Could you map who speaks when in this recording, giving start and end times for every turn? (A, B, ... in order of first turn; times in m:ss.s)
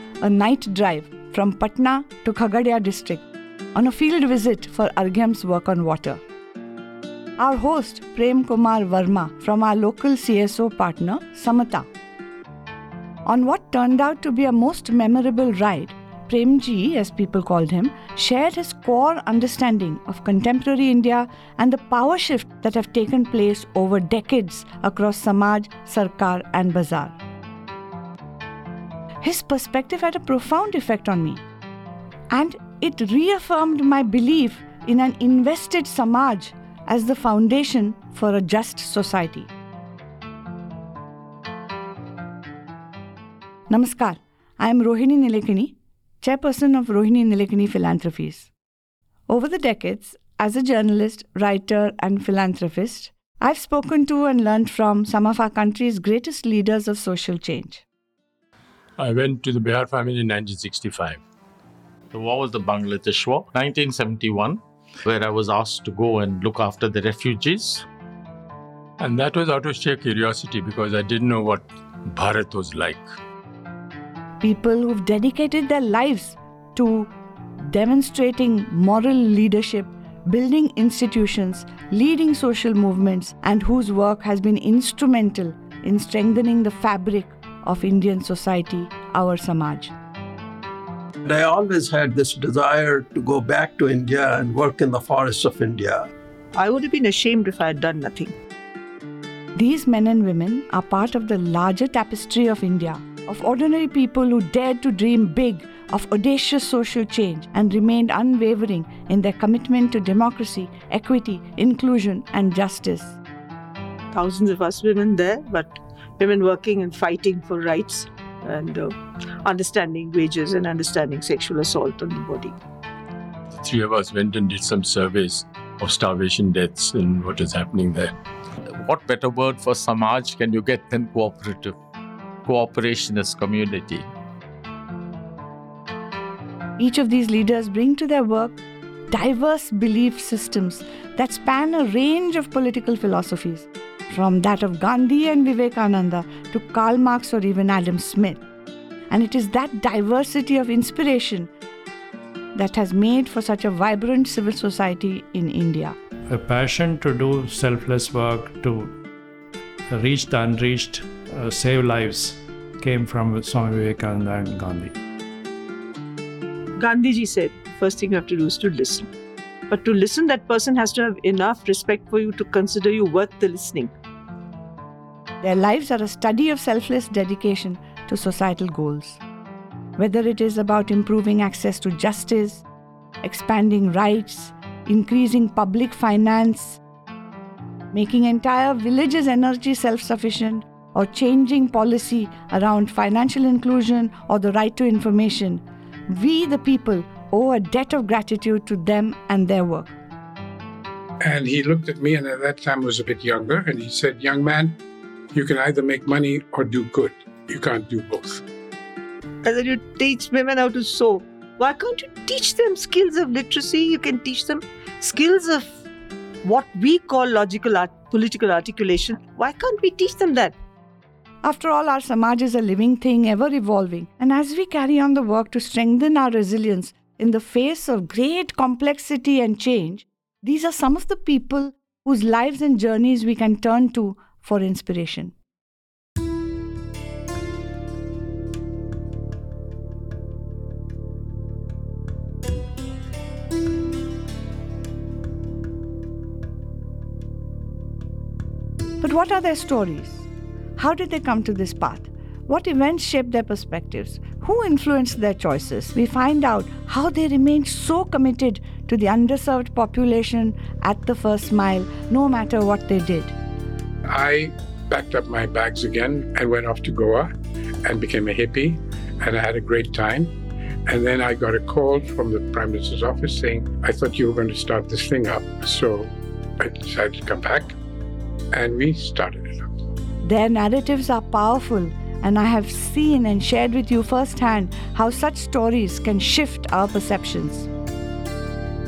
0:00.2-0:06.2 A
0:07.4-0:11.9 A
0:13.2-0:27.2 A
0:29.2-0:31.4 A
0:32.3-0:39.5 A
0:43.7-0:48.5 A
0:49.3-0:57.8 A
0:59.0-1:01.2 B
1:02.1-1:07.9 C
1:09.0-1:13.1 B
1:14.4-1:29.9 A
1:31.2-1:36.1 D
1:36.6-1:38.2 E
1:39.6-1:53.2 A
1:54.2-1:55.6 E
1:56.4-1:58.0 E
1:59.5-2:02.5 E
2:03.6-2:08.1 B
2:08.7-2:11.8 C
2:12.4-2:14.1 C
2:16.8-2:28.4 A
2:29.1-2:31.5 A
2:32.6-2:36.0 A
2:36.3-2:39.0 F
2:39.9-2:45.0 F
2:46.8-2:49.0 E
2:49.9-2:53.8 E
2:55.4-2:59.2 A
3:00.0-3:02.6 A
3:03.2-3:06.8 A
3:07.9-3:20.0 A
3:21.2-3:24.8 G
3:25.3-3:28.4 G
3:29.5-3:34.6 E
3:35.3-3:35.6 E
3:36.5-3:40.4 E
3:41.4-3:55.4 A
4:09.0-4:23.4 A
4:24.1-4:27.3 G
4:27.8-4:30.3 G
4:30.9-4:37.8 G
4:38.5-4:39.6 G
4:40.2-4:47.7 A